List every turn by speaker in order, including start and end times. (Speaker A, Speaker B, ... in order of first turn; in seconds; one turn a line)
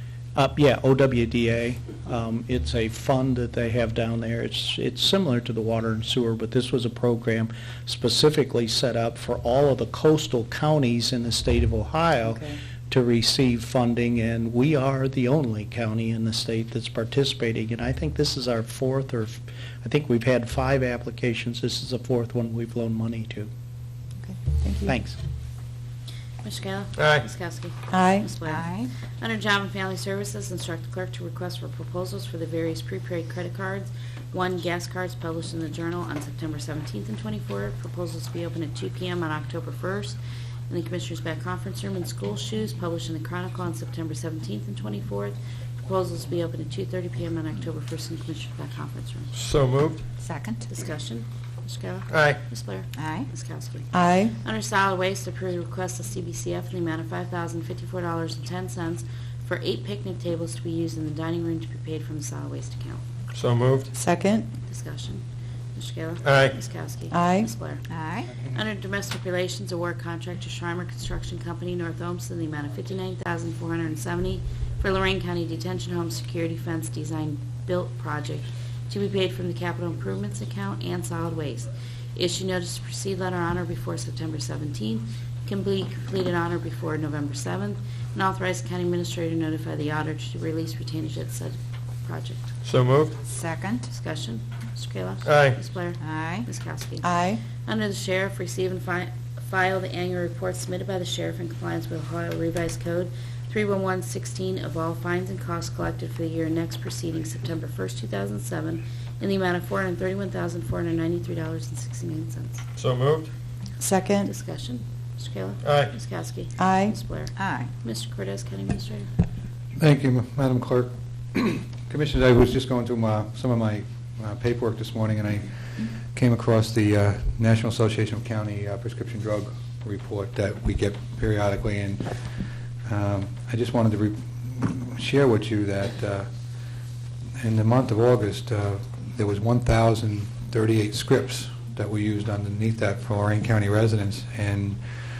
Speaker A: 0.4-23.5
Speaker B: 12.2-12.6
Speaker B: 24.4-25.0
Speaker A: 24.9-25.2
Speaker C: 26.4-40.2
Speaker D: 27.0-27.2
Speaker B: 27.9-28.3
Speaker E: 28.4-28.9
Speaker C: 40.7-49.3
Speaker D: 49.3-50.0
Speaker E: 50.2-50.6
Speaker C: 50.7-63.0
Speaker D: 52.1-52.4
Speaker E: 53.0-53.3
Speaker B: 53.9-54.3
Speaker D: 63.3-63.9
Speaker B: 63.9-64.5
Speaker C: 64.7-65.2
Speaker C: 65.8-67.9
Speaker D: 66.2-66.5
Speaker B: 67.1-67.5
Speaker E: 67.9-68.3
Speaker C: 68.4-92.5
Speaker D: 92.7-93.2
Speaker E: 93.3-93.8
Speaker C: 93.9-112.6
Speaker D: 95.2-95.6
Speaker E: 96.0-96.5
Speaker B: 97.0-97.4
Speaker D: 112.8-113.3
Speaker B: 113.8-114.3
Speaker C: 114.2-119.1
Speaker D: 115.6-115.9
Speaker B: 116.6-117.0
Speaker E: 117.4-117.7
Speaker F: 119.8-132.0
Speaker F: 132.8-136.3
Speaker F: 137.4-144.8